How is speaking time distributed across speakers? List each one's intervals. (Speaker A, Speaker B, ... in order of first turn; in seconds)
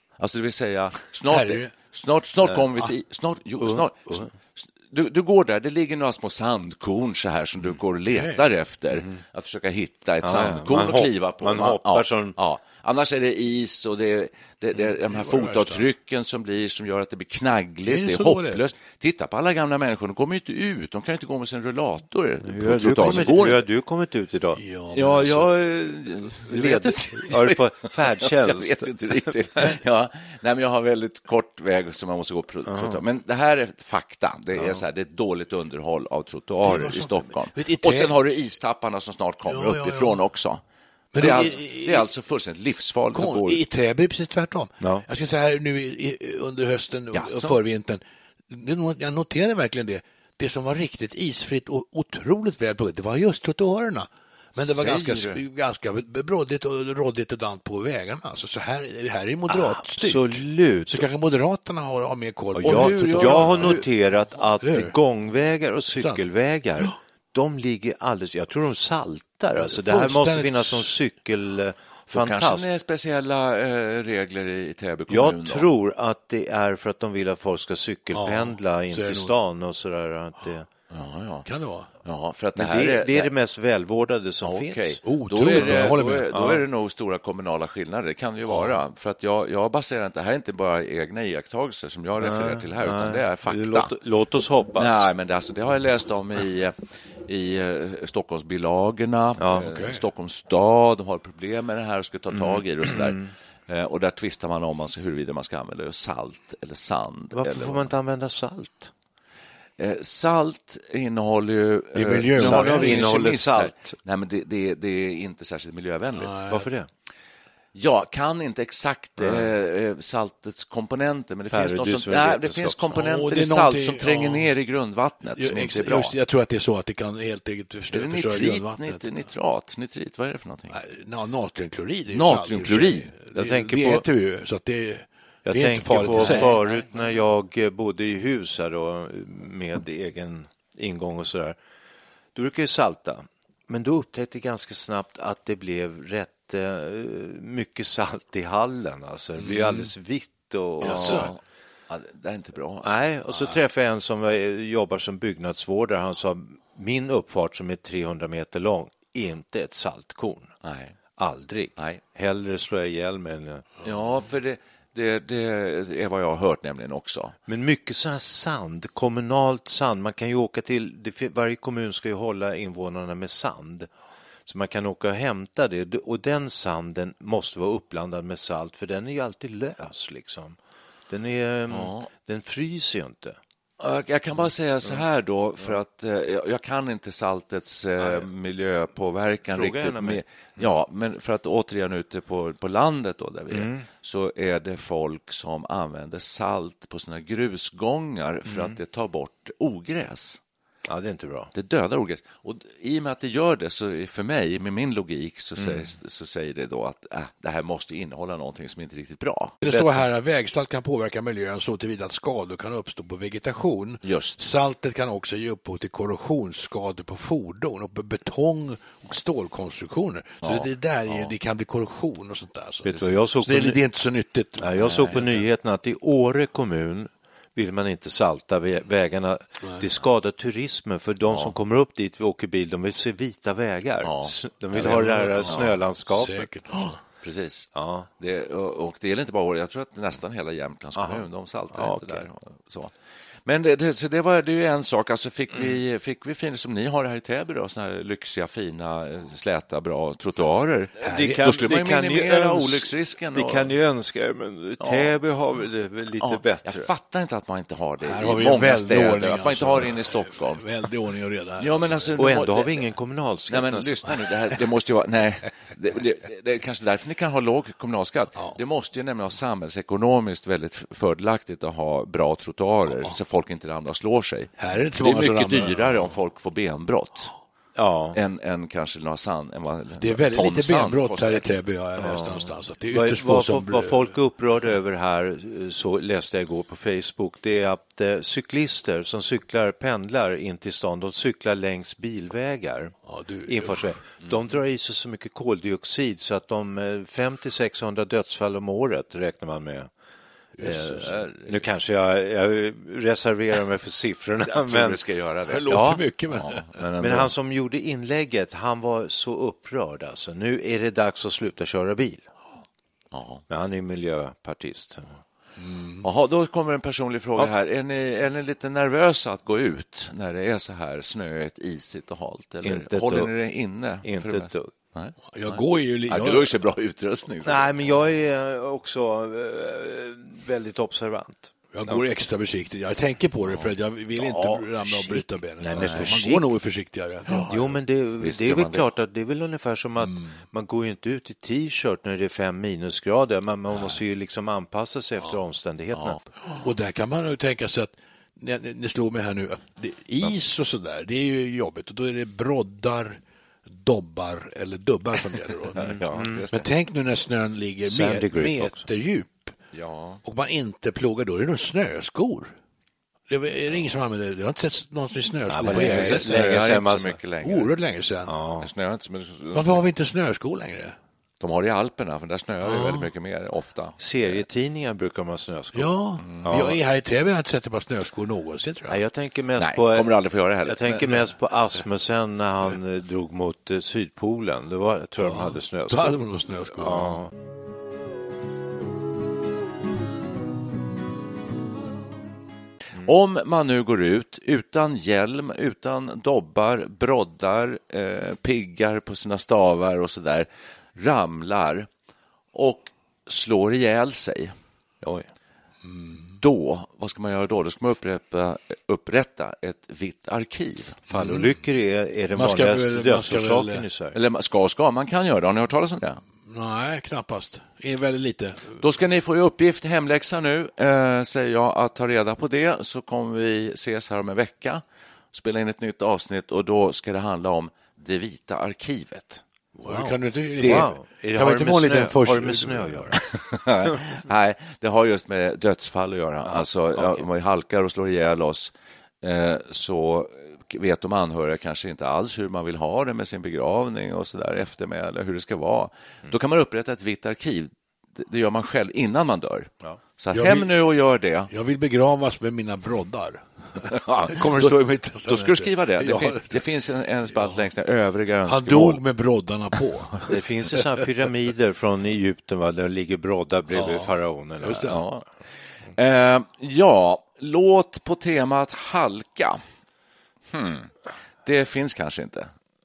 Speaker A: 0.2-23.7, 24.9-40.6, 41.2-43.6, 47.1-47.5, 54.5-55.4, 62.6-63.8, 72.1-75.7, 80.9-81.5, 82.0-83.3, 84.4-93.9, 94.8-107.9, 109.8-116.5, 117.7-126.1, 127.9-130.8, 132.1-133.1, 136.1-136.6, 150.8-153.0, 160.6-160.9, 161.8-162.0, 163.8-167.3, 181.7-182.1, 183.8-200.4, 201.5-209.5, 214.0-214.4, 220.4-221.3, 224.7-225.2, 234.0-235.7, 236.7-242.9, 243.4-253.7, 254.8-255.1, 256.2-260.6, 261.6-262.8, 263.5-277.3, 278.1-281.5, 301.0-301.6, 304.4-305.7, 306.4-307.3, 313.1-313.4, 316.0-327.9, 335.7-336.2, 338.2-338.9, 345.9-346.2, 355.7-356.7, 359.7-360.2, 365.6-367.7, 368.6-369.9, 371.4-374.0, 376.2-376.6, 379.6-381.3, 393.0-401.9, 402.5-404.5, 406.4-411.1, 414.1-416.2, 418.8-429.4, 430.6-430.9, 433.1-451.5, 453.9-459.0, 464.8-465.2, 465.9-469.6, 470.5-470.9, 471.4-472.5
Speaker B: 1.2-1.7, 8.1-8.4, 14.8-15.8, 17.8-18.6, 24.6-25.5, 36.6-38.1, 39.4-40.2, 41.1-42.1, 43.1-64.9, 66.0-66.2, 69.6-71.0, 78.1-79.3, 81.4-81.9, 85.0-86.5, 99.6-100.0, 111.9-113.0, 116.1-116.6, 122.9-124.5, 125.3-129.1, 130.7-136.6, 150.8-151.3, 209.6-225.4, 234.8-237.0, 251.0-251.6, 258.0-262.3, 268.3-268.6, 272.9-273.2, 274.6-276.1, 280.0-284.1, 293.1-294.0, 300.6-301.1, 305.5-306.7, 315.6-316.0, 325.3-326.5, 331.7-337.8, 340.0-340.3, 346.6-353.2, 353.8-355.9, 356.5-359.5, 360.2-362.6, 363.3-366.6, 367.4-368.3, 369.5-370.9, 372.6-373.1, 375.7-379.0, 385.9-387.1, 405.8-406.2, 411.1-411.5, 412.3-413.9, 416.5-418.8, 429.8-433.1, 450.3-450.7, 451.5-456.6, 457.4-457.6, 458.5-460.8, 463.7-465.0
Speaker C: 2.4-2.9, 3.6-4.3, 10.2-12.4, 22.4-24.6, 26.5-29.3, 32.7-33.0, 44.8-45.0, 59.5-61.0, 62.5-72.7, 75.1-80.7, 82.5-86.6, 88.5-88.8, 92.2-95.1, 99.4-99.7, 102.4-103.2, 107.3-108.9, 112.3-113.9, 116.5-116.9, 119.2-119.5, 121.5-123.0, 133.3-134.0, 135.4-141.6, 142.3-151.3, 152.8-160.5, 161.2-163.7, 167.5-173.9, 174.5-180.6, 181.1-183.4, 188.0-188.3, 189.5-190.2, 193.5-193.8, 198.5-198.8, 200.8-201.5, 205.6-205.9, 209.6-210.0, 222.8-223.8, 224.6-236.5, 237.7-238.1, 240.9-242.3, 251.0-256.9, 262.2-264.1, 277.8-278.2, 282.0-299.9, 300.6-305.0, 305.7-306.0, 307.0-312.2, 313.5-315.2, 322.6-323.3, 324.0-324.7, 327.4-332.0, 334.1-336.5, 337.4-346.2, 355.8-356.4, 357.8-358.9, 365.5-367.2, 368.3-368.7, 374.0-376.8, 378.9-386.2, 386.7-387.3, 411.1-414.2, 429.9-433.2, 436.4-437.2, 460.3-464.9